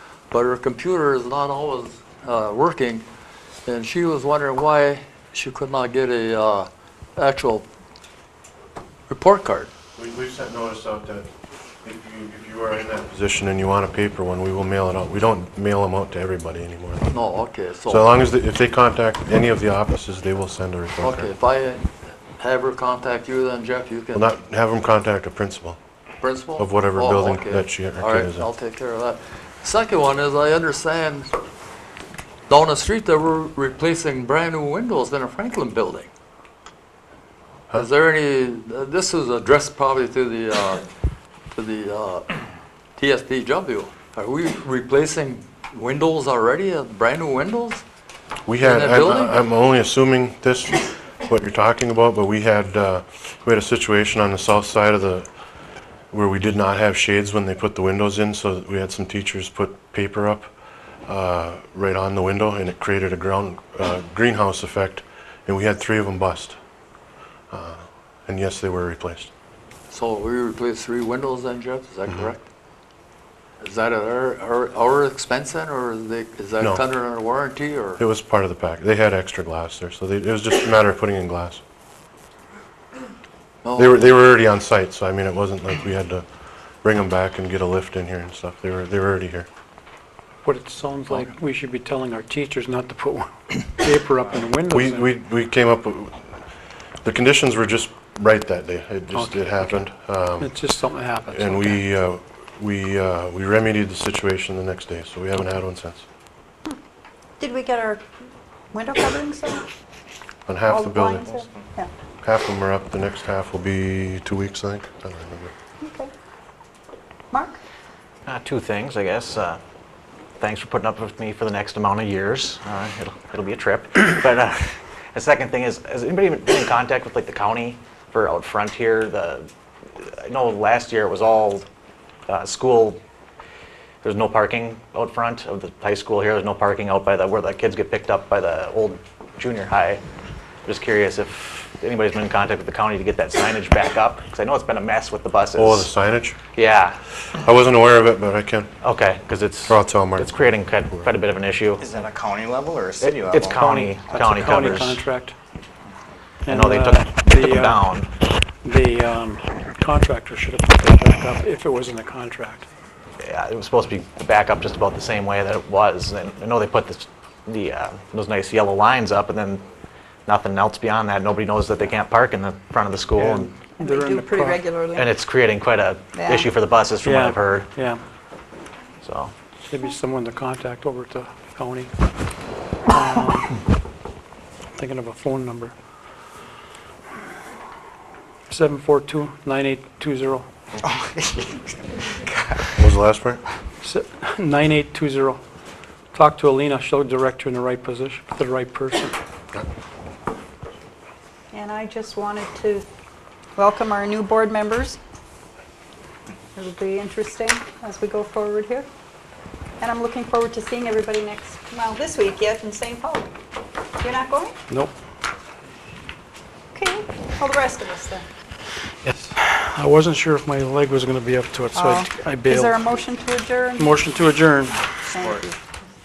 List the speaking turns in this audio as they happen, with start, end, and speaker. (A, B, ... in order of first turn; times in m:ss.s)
0:00.3-0:03.1 A
0:03.7-0:07.7 A
0:09.1-0:09.7 A
0:10.0-0:11.3 B
0:11.8-0:17.1 B
0:17.1-0:18.1 A
0:17.9-0:21.3 B
0:21.0-0:24.2 A
0:24.2-0:25.8 B
0:26.2-0:31.3 A
0:26.6-0:28.5 B
0:32.5-0:36.1 A
0:37.7-0:40.8 A
0:41.5-0:42.3 A
0:43.0-0:47.8 A
0:48.5-0:55.3 B
0:48.6-0:49.4 A
0:56.1-1:00.5 B
1:01.1-1:06.6 B
1:07.5-1:09.3 B
1:09.9-1:12.5 A
1:13.6-1:18.0 A
1:18.0-1:21.6 B
1:23.6-1:24.0 A
1:23.8-1:26.2 B
1:26.8-1:29.5 B
1:30.4-1:35.1 C
1:34.7-1:36.2 B
1:37.0-1:40.6 B
1:39.1-1:39.7 C
1:40.4-1:41.8 C
1:41.3-1:46.1 B
1:47.4-1:48.0 D
1:48.7-1:49.7 D
1:50.5-1:51.3 B
1:50.7-1:51.9 D
1:52.2-1:55.5 B
1:55.8-1:56.1 D
1:57.3-1:57.6 D
1:58.3-1:59.6 E
2:00.4-2:11.7 E
2:12.3-2:13.0 E
2:14.0-2:20.0 E
2:20.7-2:25.9 E
2:25.6-2:26.4 B
2:26.6-2:27.0 E
2:27.3-2:28.7 B
2:28.8-2:32.0 E
2:29.7-2:31.1 B
2:31.8-2:34.0 F
2:33.0-2:35.0 E
2:33.9-2:35.4 C
2:36.4-2:37.9 C
2:36.5-2:38.1 E
2:38.6-2:42.7 C
2:43.2-2:49.6 E
2:50.3-2:53.5 E
2:53.2-2:54.6 C
2:53.8-2:55.1 D
2:55.0-2:57.7 E
2:56.2-2:56.5 D
2:57.0-2:58.0 C
2:59.0-2:59.3 E
2:59.7-3:01.9 C
3:02.9-3:03.6 C
3:04.8-3:05.7 C
3:08.5-3:10.5 C
3:10.8-3:11.6 F
3:12.2-3:12.7 F
3:12.8-3:13.4 B
3:13.8-3:15.4 C
3:16.1-3:19.2 C
3:21.5-3:22.9 D
3:23.6-3:25.0 D
3:26.6-3:28.9 D
3:29.8-3:33.3 D
3:34.0-3:34.6 D
3:36.7-3:38.3 D
3:39.1-3:43.0 C
3:41.7-3:44.1 D
3:43.8-3:45.1 C
3:45.0-3:45.6 D